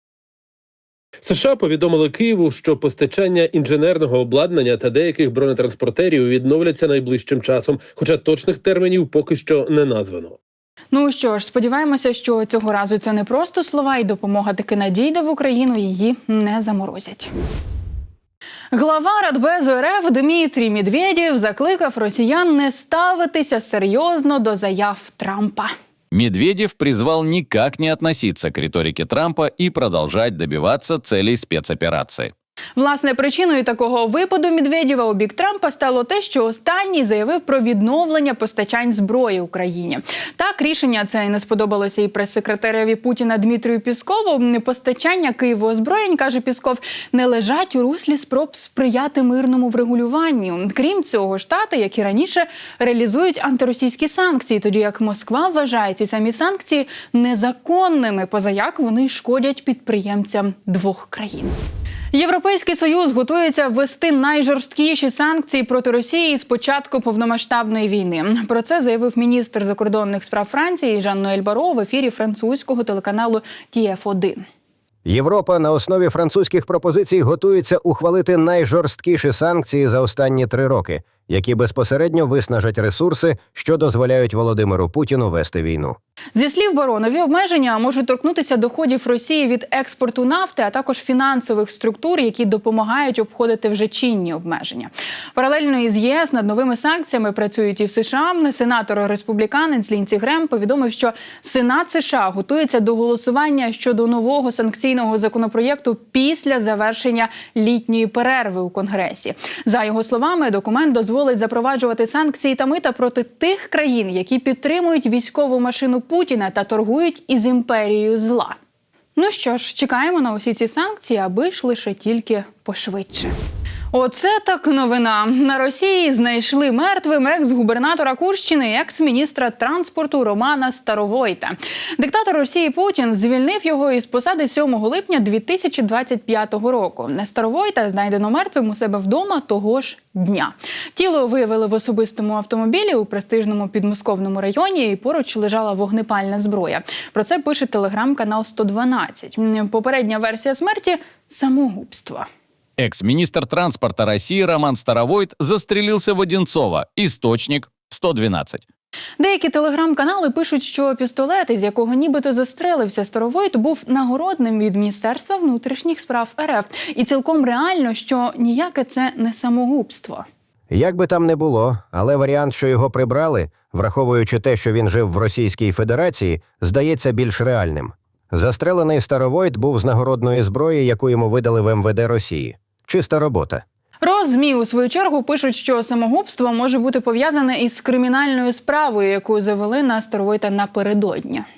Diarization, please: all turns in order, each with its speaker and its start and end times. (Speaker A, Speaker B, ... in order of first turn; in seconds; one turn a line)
Speaker A: 1.2-10.4
Speaker B: 10.9-17.3
Speaker B: 18.7-25.7
Speaker C: 26.1-32.3
Speaker B: 32.8-61.5
Speaker B: 62.1-74.5
Speaker D: 75.0-86.0
Speaker B: 86.3-118.5
Speaker B: 119.2-123.3
Speaker B: 123.9-152.2
Speaker C: 152.8-158.6
Speaker B: 159.2-170.2
Speaker D: 170.7-183.6
Speaker B: 184.0-191.4